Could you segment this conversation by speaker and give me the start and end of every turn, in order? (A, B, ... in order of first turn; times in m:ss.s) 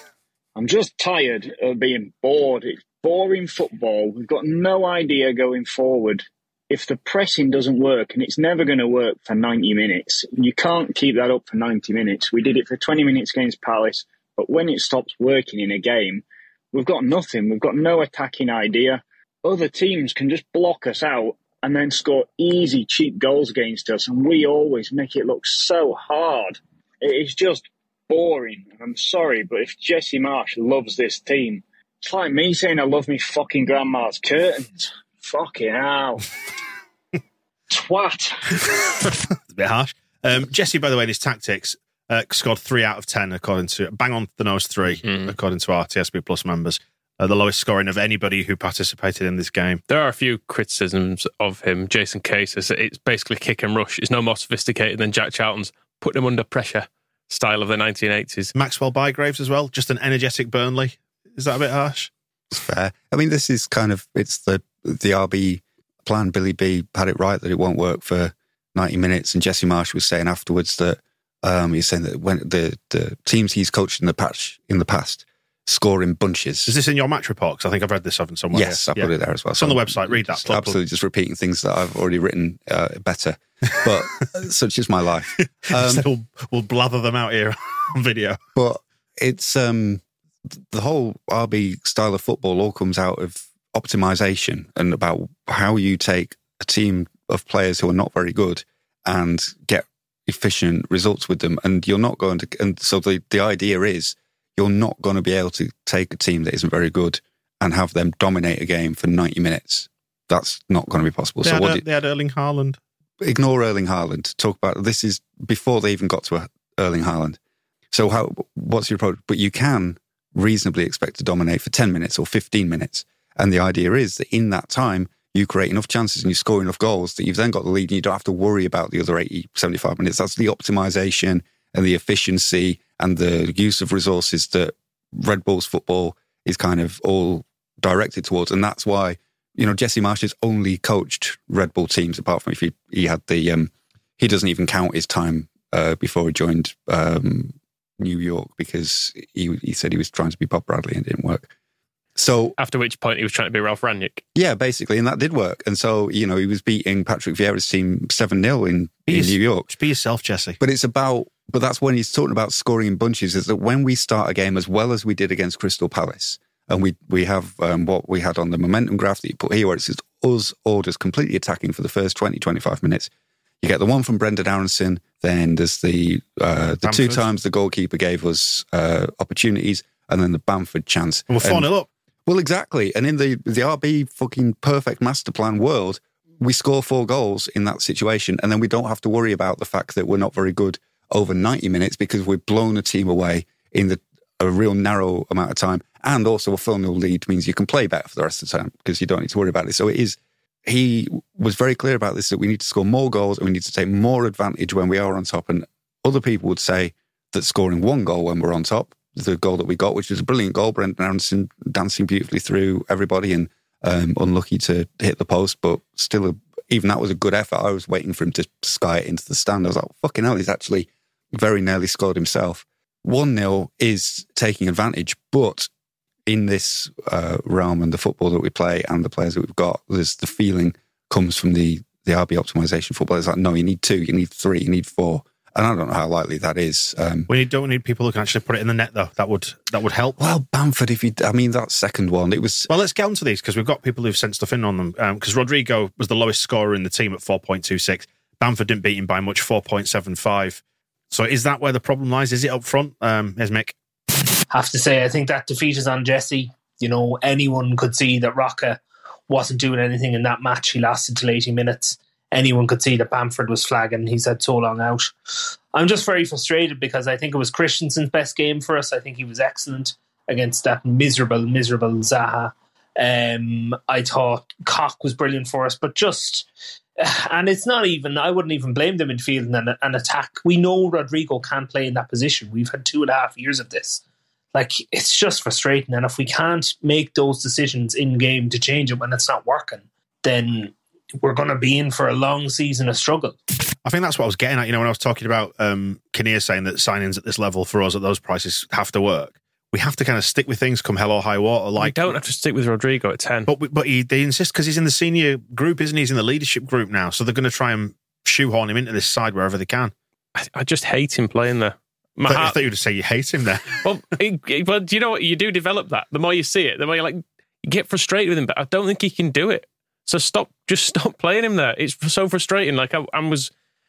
0:00.6-0:36.2 A
0:37.7-0:38.7 A
0:39.5-0:49.8 B
0:45.0-0:45.3 C
0:49.9-0:58.5 C
0:58.6-1:02.1 B
1:02.5-1:16.8 D
1:16.7-1:20.8 B
1:18.5-1:26.1 D
1:25.7-1:28.4 B
1:28.6-1:30.0 D
1:30.7-1:51.8 D
1:51.4-1:52.8 B
1:53.2-1:57.4 D
1:57.9-2:31.5 D
2:32.2-2:32.6 D
2:32.6-2:34.2 C
2:34.4-2:39.7 D
2:39.1-2:40.6 B
2:40.6-2:53.1 D
2:53.6-3:01.7 D
2:56.8-2:57.2 B
3:01.3-3:01.9 B
3:02.3-3:45.7 D
3:46.3-3:57.3 D
3:57.3-4:00.2 B
4:00.2-4:02.7 D
4:02.7-4:13.8 B
4:14.5-4:25.1 E
4:25.7-4:36.5 E
4:37.0-4:44.0 E
4:44.5-4:53.4 E
4:53.8-5:02.1 B
5:01.8-5:03.5 C
5:03.5-5:09.9 B
5:10.4-5:12.6 C
5:12.3-5:13.8 B
5:13.8-5:23.5 C